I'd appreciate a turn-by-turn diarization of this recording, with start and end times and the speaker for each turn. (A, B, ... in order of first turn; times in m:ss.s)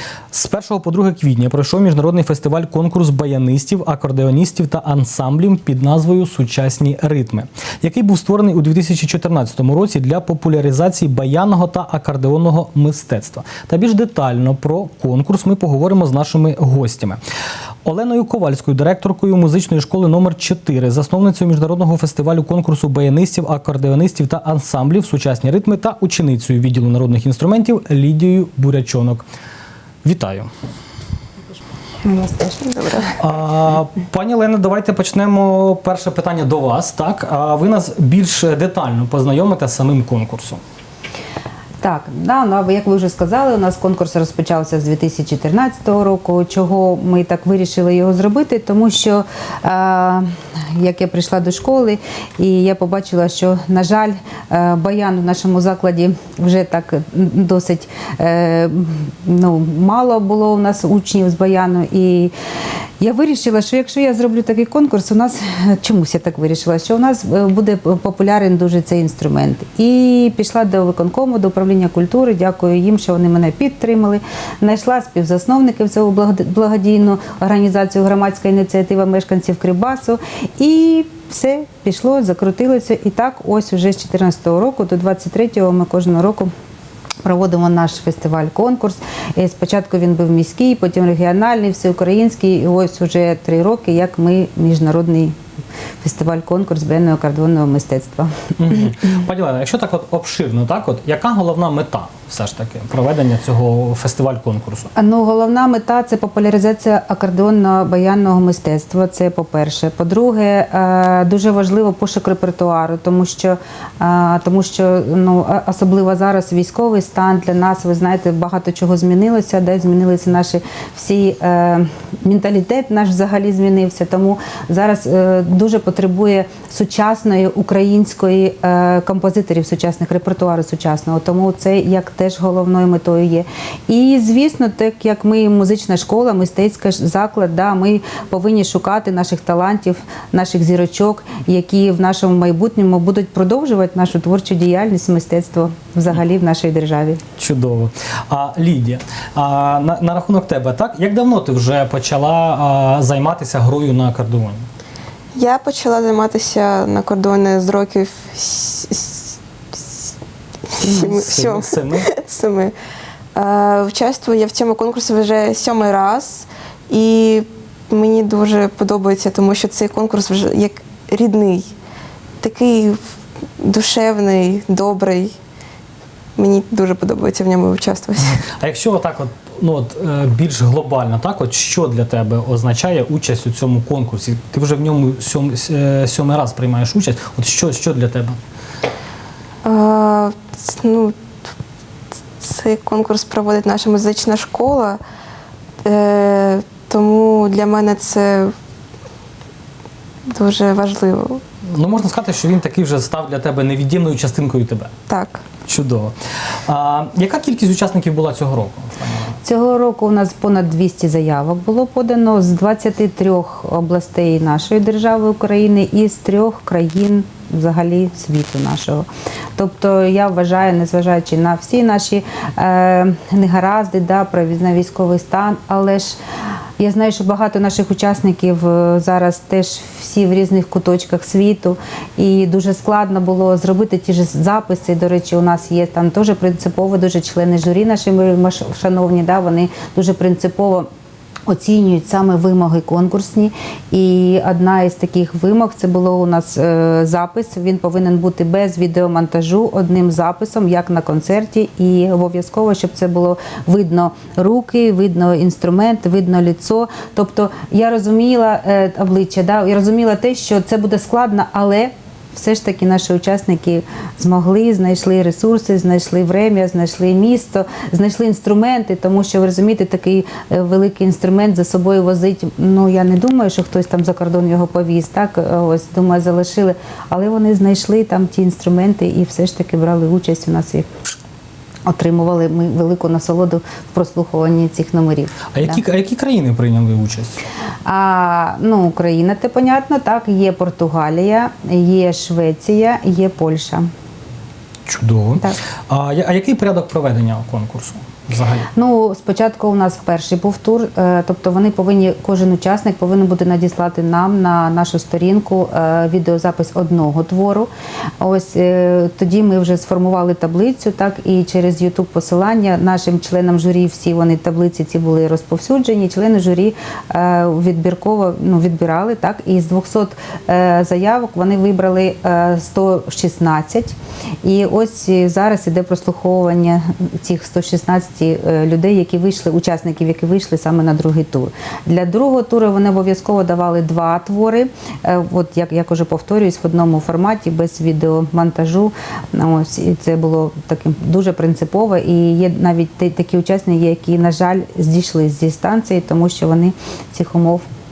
0:00.3-0:17.2 A
0:17.8-0:29.2 A
0:30.0-0:30.5 A
0:32.0-0:32.6 B
0:32.6-0:33.1 C
0:33.2-0:40.6 A
0:41.8-1:02.3 B
1:03.0-1:26.5 B
1:27.2-1:35.4 B
1:36.0-1:38.3 B
1:38.6-1:44.9 A
1:45.0-2:27.2 B
2:27.4-2:34.7 A
2:35.3-2:39.3 C
2:40.7-2:42.7 C
2:40.8-2:42.1 A
2:43.3-2:51.7 C
2:52.4-2:53.0 C
2:53.6-2:55.3 C
2:56.4-2:58.4 C
2:58.3-3:08.4 A
3:09.6-3:11.1 C
3:12.4-3:15.0 C
3:15.8-3:18.5 C
3:20.3-3:21.4 C
3:21.6-3:24.9 A
3:25.1-3:25.4 C
3:25.7-3:26.1 A
3:26.6-3:29.4 A
3:29.4-3:46.2 B
3:46.8-4:00.9 B
4:01.4-4:40.9 B
4:41.8-4:45.8 B
4:45.5-4:47.4 A
4:47.8-4:53.9 B
4:54.9-4:58.7 A
4:58.7-5:07.7 B
5:08.2-5:47.6 B